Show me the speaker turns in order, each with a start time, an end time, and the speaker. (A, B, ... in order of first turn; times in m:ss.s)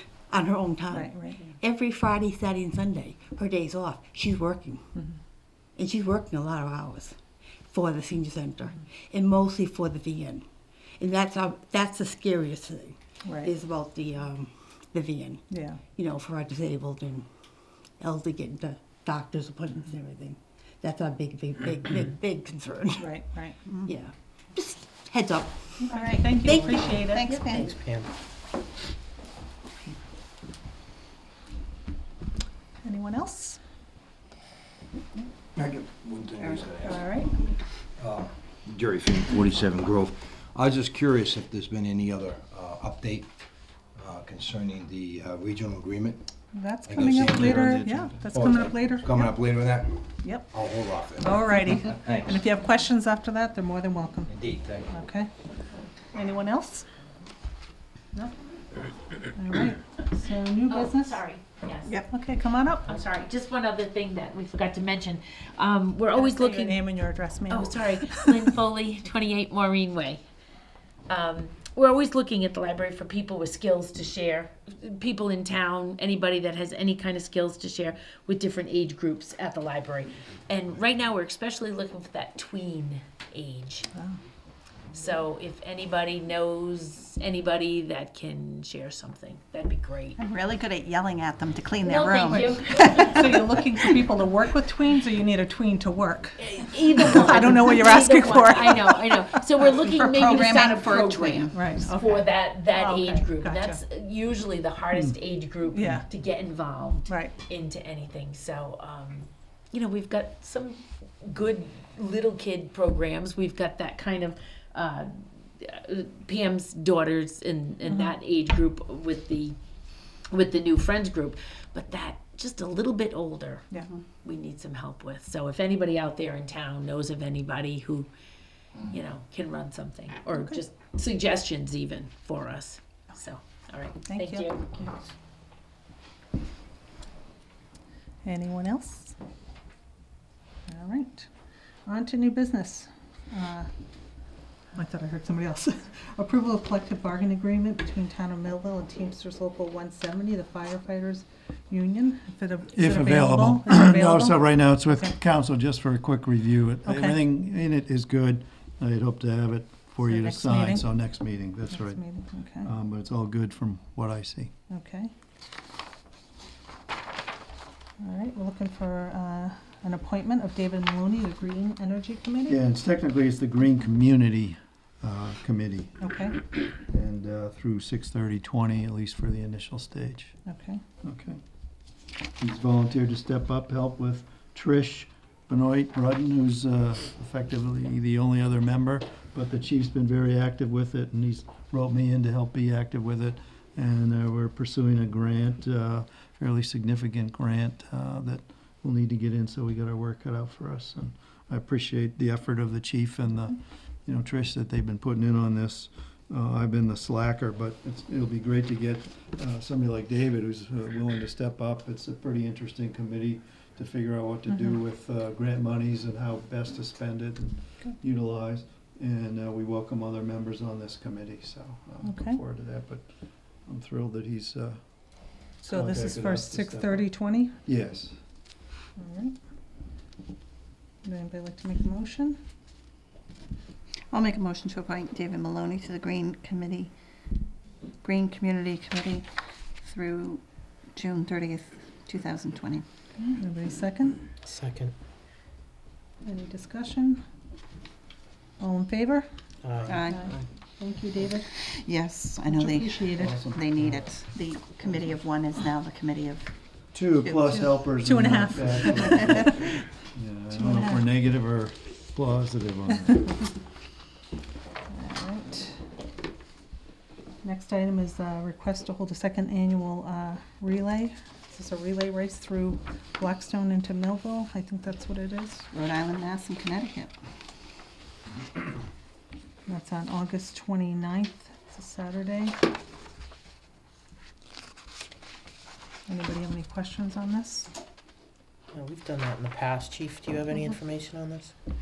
0:00.3-0:04.8 A
0:00.9-0:01.4 B
0:05.8-0:10.4 A
0:11.0-0:15.4 A
0:13.2-0:13.5 B
0:15.5-0:15.8 B
0:15.9-0:17.3 A
0:18.0-0:23.1 A
0:23.0-0:23.6 B
0:23.8-0:26.9 A
0:25.8-0:27.3 B
0:25.9-0:27.8 C
0:27.4-0:28.1 D
0:32.8-0:33.6 B
0:35.6-0:37.3 E
0:36.5-0:36.9 C
0:36.9-0:37.3 B
0:38.0-0:43.3 E
0:44.0-0:46.3 E
0:46.5-0:49.3 B
0:46.9-0:52.4 E
0:47.0-0:48.1 F
0:50.2-0:50.5 B
0:51.2-0:54.3 B
0:54.3-0:54.9 E
0:54.9-0:55.3 B
0:56.1-0:56.9 B
0:59.2-1:01.2 B
1:00.7-1:02.0 G
1:02.1-1:02.9 B
1:02.9-1:06.8 G
1:06.1-1:08.4 B
1:07.5-1:10.2 G
1:11.1-1:23.9 G
1:24.9-1:30.2 G
1:30.2-1:33.0 C
1:31.8-1:33.6 G
1:32.3-1:40.7 B
1:36.4-1:59.6 G
1:39.9-1:41.6 C
1:41.5-1:43.8 B
1:45.7-1:46.0 B
1:47.1-1:47.4 B
1:57.9-1:58.1 B
2:00.3-2:03.7 G
2:04.2-2:08.1 G
2:08.9-2:14.9 G
2:14.0-2:14.6 B
2:18.2-2:19.2 B
2:20.7-2:21.3 B
2:21.8-2:23.7 B
2:24.7-2:34.4 B
2:32.7-2:42.0 F
2:36.8-2:37.2 B
2:40.0-2:40.9 B
2:41.7-2:42.7 B
2:42.6-2:44.5 F
2:44.7-2:45.1 B
2:48.0-2:52.6 B
2:52.5-2:55.9 F
2:56.0-2:56.4 B
2:56.7-3:00.4 F
3:00.4-3:00.8 B
3:01.0-3:01.4 F
3:02.4-3:43.1 F
3:34.5-3:34.8 B
3:42.0-3:42.4 B
3:43.6-3:44.8 F
3:45.6-3:47.5 B
3:45.7-3:47.1 F
3:47.6-3:48.2 F
3:49.0-3:49.4 B
3:51.0-3:52.4 B
3:54.1-3:56.9 C
3:58.0-3:59.3 C
3:59.8-4:00.4 C
4:00.9-4:02.8 C
4:03.2-4:04.2 B
4:04.4-4:04.9 D
4:06.2-4:07.2 B
4:08.6-4:09.3 B
4:09.6-4:10.4 D
4:09.9-4:10.3 C
4:09.9-4:11.5 B
4:11.5-4:16.4 C
4:12.4-4:13.4 B
4:13.2-4:14.1 F
4:16.9-4:23.4 F
4:17.4-4:19.7 B
4:20.5-4:21.0 B
4:24.9-4:25.8 B
4:27.4-4:35.7 B
4:35.7-4:37.1 C
4:39.6-4:42.6 B
4:46.1-4:47.7 B
4:48.7-4:51.5 D